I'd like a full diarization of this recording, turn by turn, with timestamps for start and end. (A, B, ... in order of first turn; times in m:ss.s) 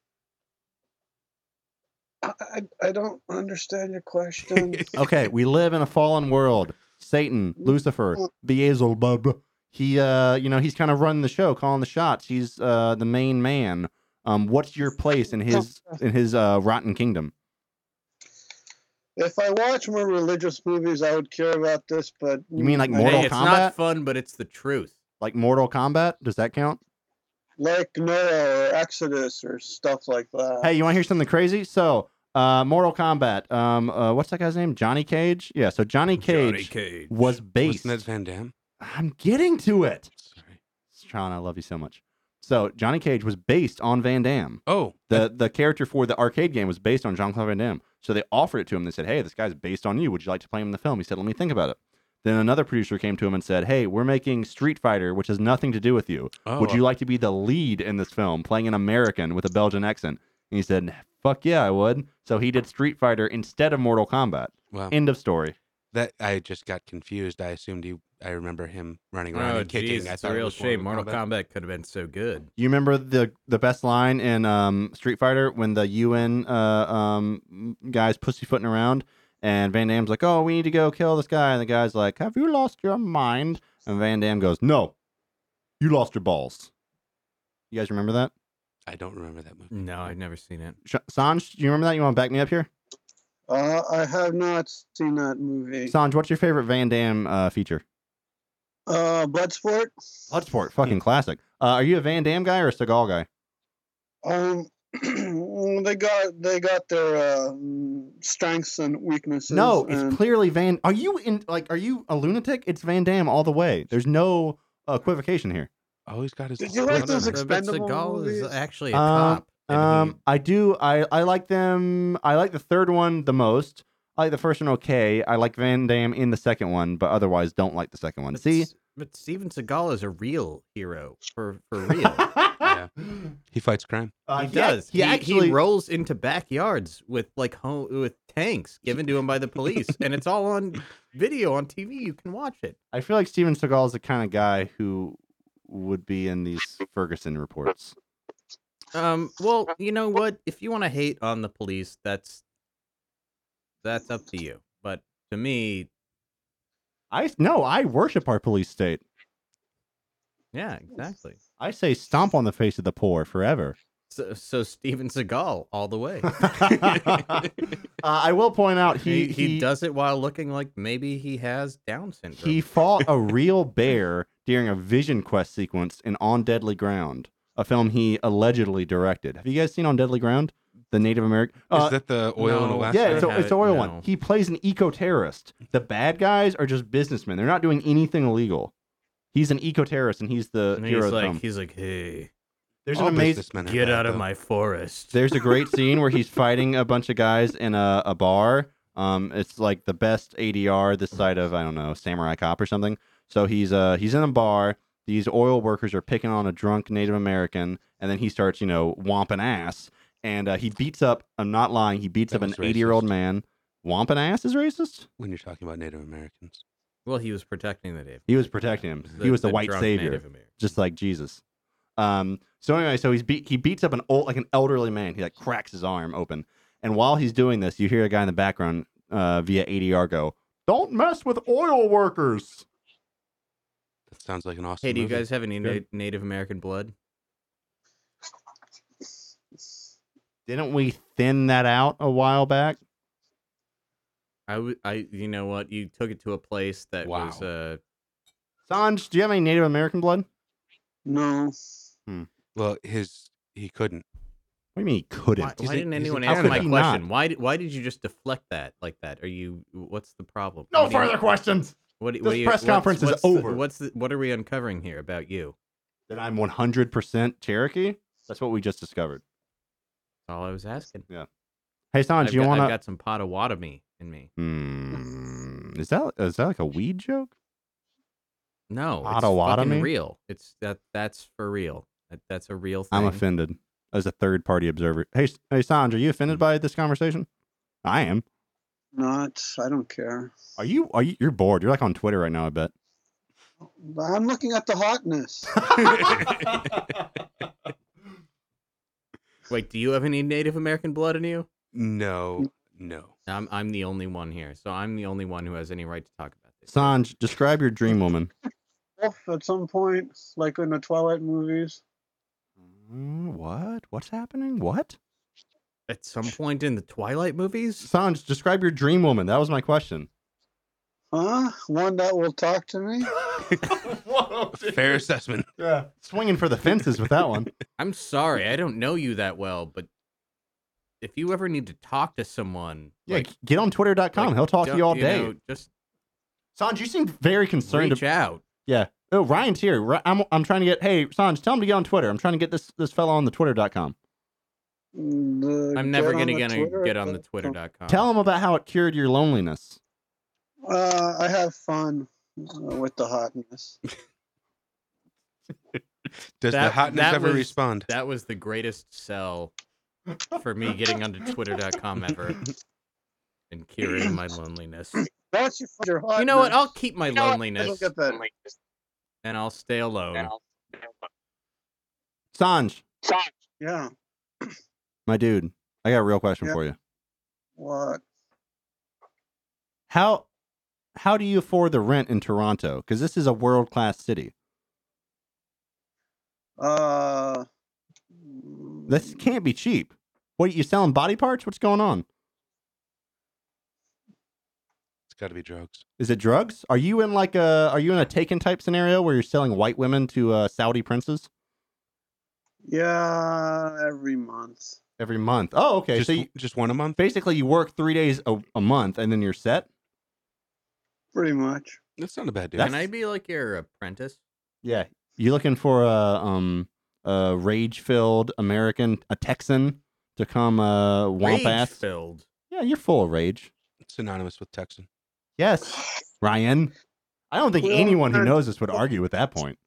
0:02.2-0:05.0 A
0:04.5-0:04.8 B
0:05.0-0:17.3 C
0:19.2-0:23.4 A
0:22.6-0:23.7 C
0:23.0-0:24.9 D
0:25.2-0:26.8 C
0:27.6-0:30.7 A
0:30.6-0:38.0 C
0:36.2-0:38.5 B
0:36.6-0:37.1 D
0:38.8-0:40.1 C
0:40.2-0:40.6 B
0:40.9-1:05.5 C
0:44.7-0:45.3 B
0:56.4-0:56.8 B
1:05.9-1:11.2 B
1:09.3-1:12.5 D
1:12.6-1:24.9 C
1:25.8-1:26.7 C
1:27.7-1:28.3 C
1:28.9-1:29.7 B
1:29.7-1:30.8 D
1:30.8-1:32.7 C
1:33.5-1:35.9 A
1:35.9-1:37.8 C
1:38.9-1:39.9 A
1:40.3-1:43.3 C
1:44.2-1:50.2 A
1:49.5-1:55.7 C
1:56.1-1:57.4 B
1:56.6-1:58.5 A
1:57.2-2:00.2 D
1:58.9-2:08.7 C
2:08.3-2:12.3 D
2:12.2-2:12.7 C
2:12.6-2:12.9 B
2:13.5-2:14.1 B
2:14.3-2:15.6 C
2:14.4-2:22.8 D
2:22.9-2:27.9 C
2:28.9-2:32.4 D
2:33.8-2:35.9 D
2:37.1-2:39.0 C
2:40.5-2:41.4 D
2:41.6-2:43.8 C
2:44.1-2:46.6 D
2:46.4-2:47.4 C
2:48.0-2:49.6 C
2:49.0-2:52.6 D
2:52.4-3:02.0 C
3:01.7-3:03.3 B
3:02.4-3:04.0 D
3:02.9-3:08.7 C
3:09.3-3:11.4 C
3:10.8-3:12.3 D
3:12.8-3:13.4 C
3:12.9-3:14.2 B
3:13.6-3:15.2 D
3:15.1-3:35.0 C
3:32.3-3:33.1 B
3:35.2-3:36.6 B
3:37.0-3:40.6 D
3:38.3-3:41.4 C
3:42.0-3:52.6 C
3:54.1-3:55.8 B
3:54.8-3:56.9 D
4:00.5-4:02.8 C
4:04.5-4:07.8 D
4:07.0-4:07.5 B
4:08.7-4:10.2 C
4:11.0-4:11.5 A
4:12.5-4:14.0 B
4:14.8-4:17.0 C
4:15.4-4:21.1 D
4:16.0-4:16.7 B
4:20.7-4:23.6 C
4:22.0-4:25.5 D
4:26.1-4:29.2 C
4:30.3-4:31.1 D
4:31.9-4:32.7 C
4:32.2-4:34.3 D
4:34.4-4:37.3 C
4:38.7-4:43.2 D
4:39.0-4:39.9 C
4:42.9-4:47.3 C
4:47.8-4:48.2 C
4:48.9-4:50.4 A
4:50.6-4:52.7 C
4:53.8-4:56.1 A
4:55.6-4:56.8 B
4:55.7-4:56.7 C
4:59.5-5:01.5 D
5:01.7-5:03.1 B
5:03.3-5:06.9 D
5:06.7-5:08.3 C
5:09.0-5:11.8 A
5:12.7-5:15.0 C
5:15.9-5:17.9 D
5:17.8-5:20.1 C
5:21.1-5:23.1 A
5:23.3-5:25.0 C
5:24.6-5:25.5 B
5:25.6-5:27.5 C
5:27.8-5:29.9 D
5:31.0-5:33.3 D
5:33.1-5:35.3 C
5:34.1-5:35.7 D
5:36.6-5:38.0 C
5:37.7-5:38.4 D
5:38.6-5:43.9 C
5:44.9-5:47.5 A
5:45.7-5:48.1 D
5:47.9-5:49.8 C
5:50.6-5:53.8 A
5:56.4-5:57.9 B
5:56.5-5:59.5 D
6:00.3-6:02.4 D
6:03.5-6:05.0 D
6:05.3-6:06.7 A
6:06.2-6:07.9 D
6:07.6-6:08.3 A
6:09.2-6:10.4 D
6:12.3-6:12.8 C
6:13.6-6:13.9 A
6:15.1-6:16.8 C
6:17.6-6:18.0 A
6:19.9-6:20.3 C
6:20.9-6:24.3 C
6:26.6-6:27.4 A
6:28.3-6:29.0 A
6:28.9-6:32.0 C
6:35.1-6:35.8 B
6:36.0-6:41.3 C
6:42.7-6:44.8 A
6:45.0-6:46.3 C
6:45.9-6:47.0 B
6:47.0-6:49.7 C
6:51.1-6:51.8 A
6:52.0-6:52.8 B
6:52.6-6:52.8 C
6:52.6-6:54.2 D
6:54.6-7:01.8 C
7:01.2-7:02.2 D
7:02.5-7:03.5 C
7:03.8-7:04.9 B
7:05.4-7:06.7 C
7:07.3-7:09.6 C
7:07.6-7:08.4 A